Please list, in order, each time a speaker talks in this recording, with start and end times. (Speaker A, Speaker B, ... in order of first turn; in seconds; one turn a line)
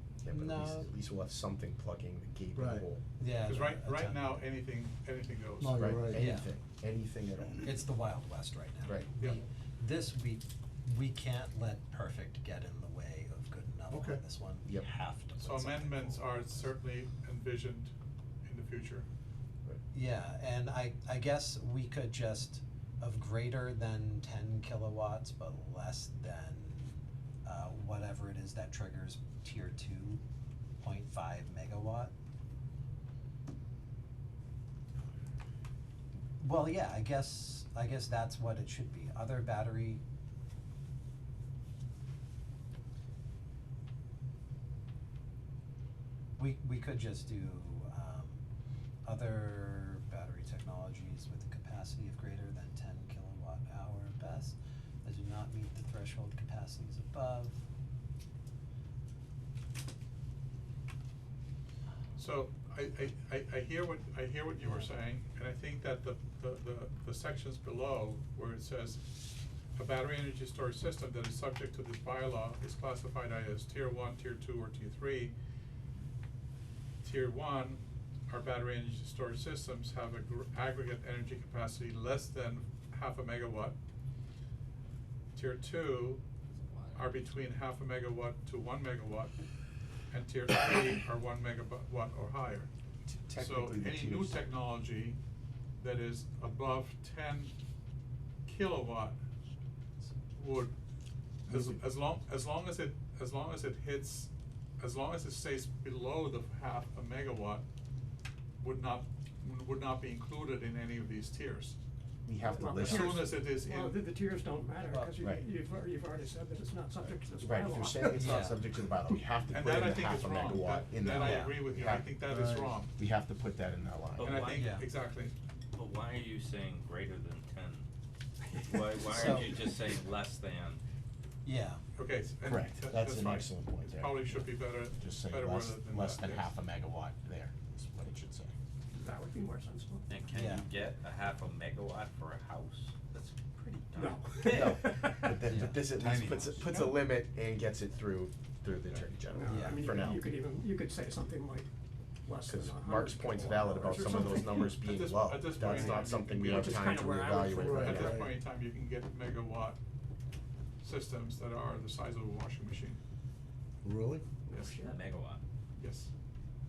Speaker A: 0.2-3.0
Speaker B: 0.3-0.9
Speaker C: 2.5-2.9
Speaker B: 3.2-4.5
Speaker D: 3.4-5.9
Speaker C: 5.6-6.3
Speaker A: 5.7-7.8
Speaker B: 6.1-6.5
Speaker B: 7.6-16.7
Speaker A: 8.8-9.1
Speaker D: 9.2-9.4
Speaker C: 13.9-14.2
Speaker A: 14.6-14.9
Speaker D: 15.4-17.9
Speaker D: 18.4-19.1
Speaker B: 19.9-30.2
Speaker B: 30.8-32.1
Speaker B: 36.4-40.0
Speaker B: 46.4-48.4
Speaker B: 49.0-57.6
Speaker D: 62.2-69.1
Speaker D: 69.7-75.3
Speaker D: 77.0-83.8
Speaker D: 85.3-86.2
Speaker D: 86.9-89.3
Speaker D: 90.1-92.7
Speaker A: 93.0-94.4
Speaker D: 93.3-95.2
Speaker D: 95.8-97.5
Speaker D: 98.5-99.2
Speaker D: 100.3-100.7
Speaker D: 101.5-107.6
Speaker A: 101.5-101.8
Speaker D: 108.6-111.8
Speaker A: 112.2-113.3
Speaker E: 112.4-118.5
Speaker D: 112.8-114.0
Speaker A: 115.2-115.5
Speaker A: 117.4-122.2
Speaker B: 118.1-118.6
Speaker D: 119.5-122.9
Speaker B: 121.1-121.7
Speaker C: 122.3-122.8
Speaker A: 123.0-124.4
Speaker D: 124.2-125.3
Speaker B: 124.5-124.9
Speaker F: 125.8-127.8
Speaker F: 128.7-130.8
Speaker B: 129.1-129.6
Speaker B: 131.4-131.8
Speaker D: 131.9-136.5
Speaker A: 132.4-138.5
Speaker E: 138.9-140.1
Speaker F: 140.1-144.1
Speaker B: 140.3-140.7
Speaker E: 143.9-145.4
Speaker A: 144.5-150.3
Speaker B: 145.4-145.9
Speaker D: 145.9-146.7
Speaker E: 149.3-151.7
Speaker B: 149.4-149.9
Speaker E: 152.2-154.8
Speaker A: 152.5-158.2
Speaker D: 154.7-157.0
Speaker E: 155.6-158.2
Speaker C: 157.6-158.3
Speaker D: 157.7-159.8
Speaker D: 160.8-163.0
Speaker C: 163.8-164.2
Speaker E: 164.4-165.0
Speaker F: 164.9-165.4
Speaker D: 165.8-166.1